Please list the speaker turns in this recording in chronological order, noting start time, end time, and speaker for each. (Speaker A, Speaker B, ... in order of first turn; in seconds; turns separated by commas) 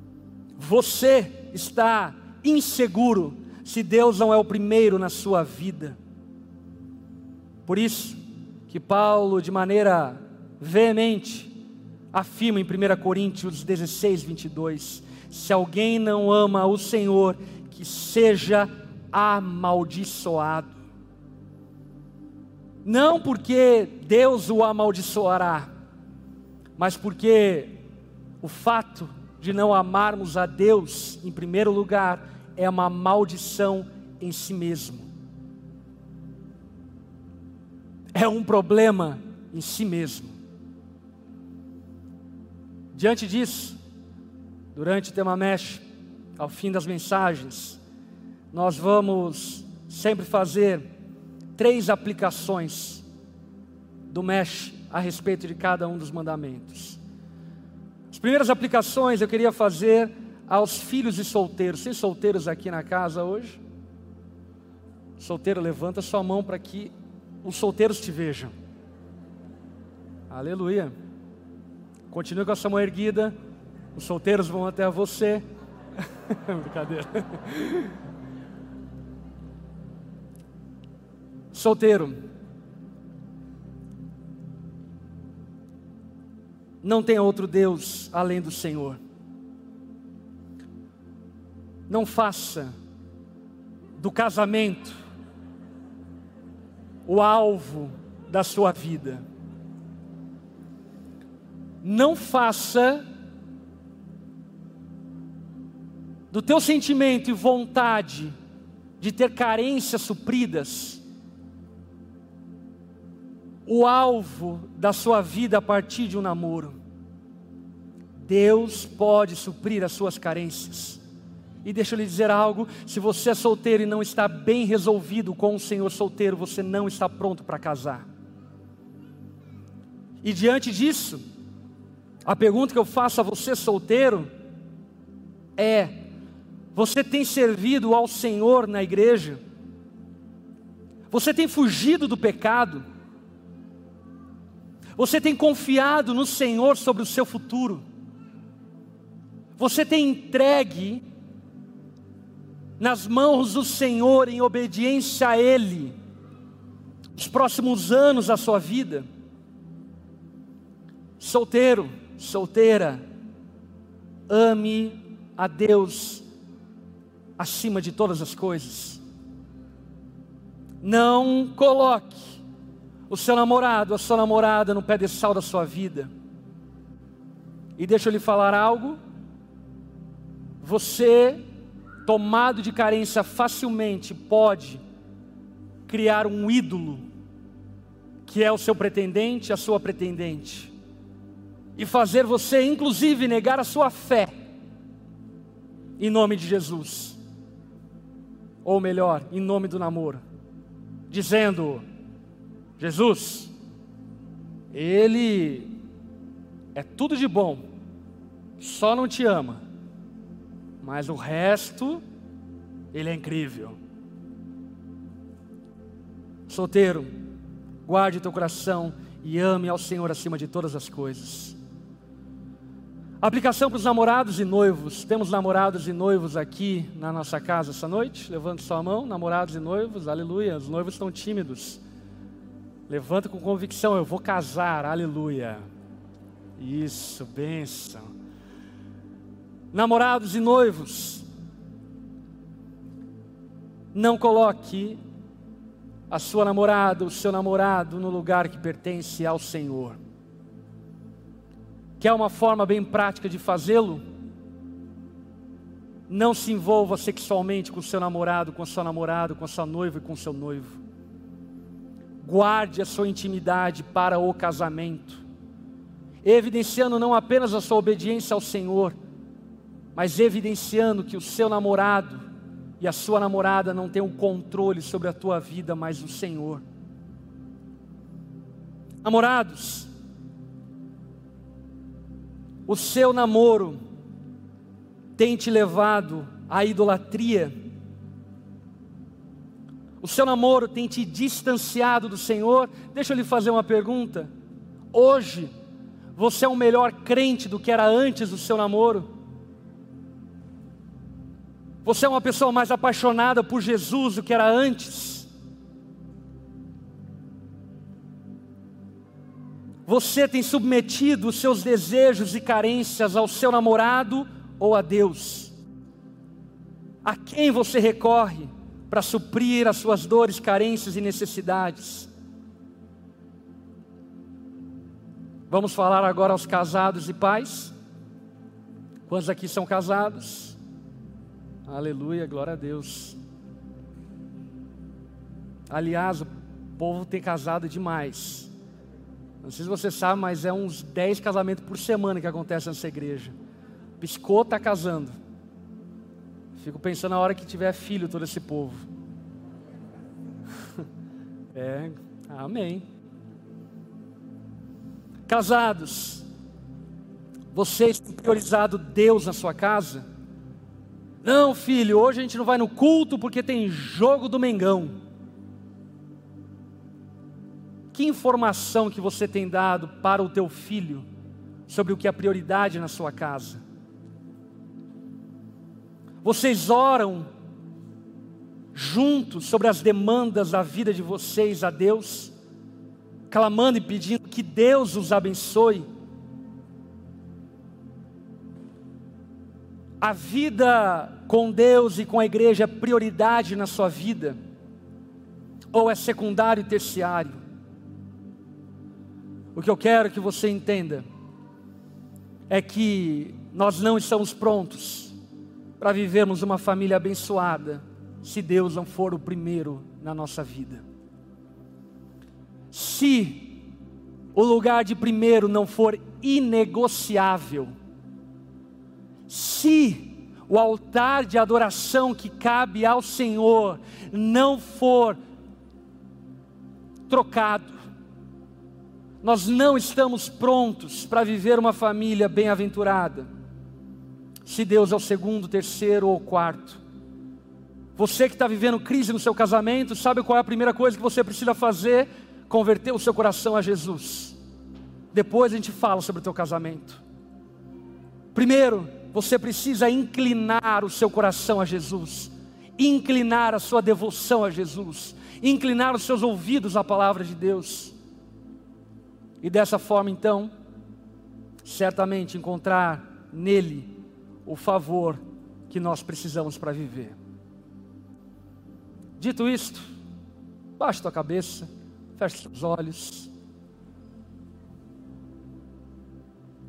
Speaker A: 0.6-6.0, Speaker A: 7.7-11.5, Speaker A: 12.1-20.8, Speaker A: 22.8-25.7, Speaker A: 26.8-27.8, Speaker A: 28.4-35.1, Speaker A: 38.1-40.3, Speaker A: 42.9-43.8, Speaker A: 44.7-45.8, Speaker A: 46.4-47.8, Speaker A: 48.5-50.9, Speaker A: 51.5-53.0, Speaker A: 54.1-57.0, Speaker A: 58.1-63.6, Speaker A: 65.2-66.9, Speaker A: 67.4-68.5, Speaker A: 70.3-70.9, Speaker A: 72.1-73.3, Speaker A: 73.9-75.4, Speaker A: 76.3-77.9, Speaker A: 81.5-82.2, Speaker A: 86.8-89.0, Speaker A: 91.9-92.7, Speaker A: 94.0-95.0, Speaker A: 97.0-99.2, Speaker A: 101.8-103.0, Speaker A: 106.3-108.3, Speaker A: 109.0-111.0, Speaker A: 113.7-116.7, Speaker A: 118.2-121.0, Speaker A: 121.6-128.0, Speaker A: 130.2-131.2, Speaker A: 132.2-134.3, Speaker A: 135.6-136.0, Speaker A: 136.7-139.4, Speaker A: 141.1-142.8, Speaker A: 145.0-147.8, Speaker A: 149.6-151.0, Speaker A: 152.8-155.9, Speaker A: 157.2-159.0, Speaker A: 161.2-163.0, Speaker A: 164.3-166.2, Speaker A: 167.4-169.0, Speaker A: 170.8-172.4, Speaker A: 173.1-176.1, Speaker A: 177.8-179.0, Speaker A: 180.6-181.4, Speaker A: 182.0-184.8, Speaker A: 185.9-187.0, Speaker A: 188.2-190.7, Speaker A: 191.8-194.3, Speaker A: 196.0-197.2, Speaker A: 198.6-200.2, Speaker A: 201.1-201.8, Speaker A: 202.8-203.5, Speaker A: 204.7-205.8, Speaker A: 206.7-207.6, Speaker A: 208.6-209.6, Speaker A: 210.8-212.0, Speaker A: 212.9-213.8, Speaker A: 216.5-217.1, Speaker A: 217.8-221.6, Speaker A: 223.2-231.8, Speaker A: 232.9-235.6, Speaker A: 236.6-238.0, Speaker A: 239.7-241.2, Speaker A: 243.9-245.0, Speaker A: 246.1-250.0, Speaker A: 252.0-254.0, Speaker A: 256.1-260.8, Speaker A: 262.2-265.2, Speaker A: 266.2-268.9, Speaker A: 269.9-272.2, Speaker A: 272.8-276.6, Speaker A: 279.0-279.9, Speaker A: 282.7-283.8, Speaker A: 285.1-287.5, Speaker A: 290.0-294.3, Speaker A: 294.9-295.5, Speaker A: 296.1-299.1, Speaker A: 301.8-305.3, Speaker A: 309.9-315.5, Speaker A: 317.0-322.1, Speaker A: 325.5-327.7, Speaker A: 329.1-330.6, Speaker A: 331.6-333.2, Speaker A: 335.7-338.5, Speaker A: 339.4-343.3, Speaker A: 344.0-345.1, Speaker A: 346.6-348.9, Speaker A: 351.5-352.8, Speaker A: 355.3-356.2, Speaker A: 357.5-360.0, Speaker A: 361.2-364.9, Speaker A: 367.9-371.0, Speaker A: 371.7-373.6, Speaker A: 376.2-377.3, Speaker A: 378.7-382.3, Speaker A: 383.3-385.8, Speaker A: 390.0-394.4, Speaker A: 395.7-397.4, Speaker A: 399.5-401.0, Speaker A: 402.5-405.1, Speaker A: 405.8-410.8, Speaker A: 412.7-413.6, Speaker A: 414.3-417.7, Speaker A: 419.3-425.2, Speaker A: 427.1-427.8, Speaker A: 429.2-433.3, Speaker A: 434.4-436.8, Speaker A: 438.0-444.4, Speaker A: 445.1-447.0, Speaker A: 448.3-457.9, Speaker A: 459.4-460.5, Speaker A: 461.6-467.1, Speaker A: 469.2-469.9, Speaker A: 470.8-473.3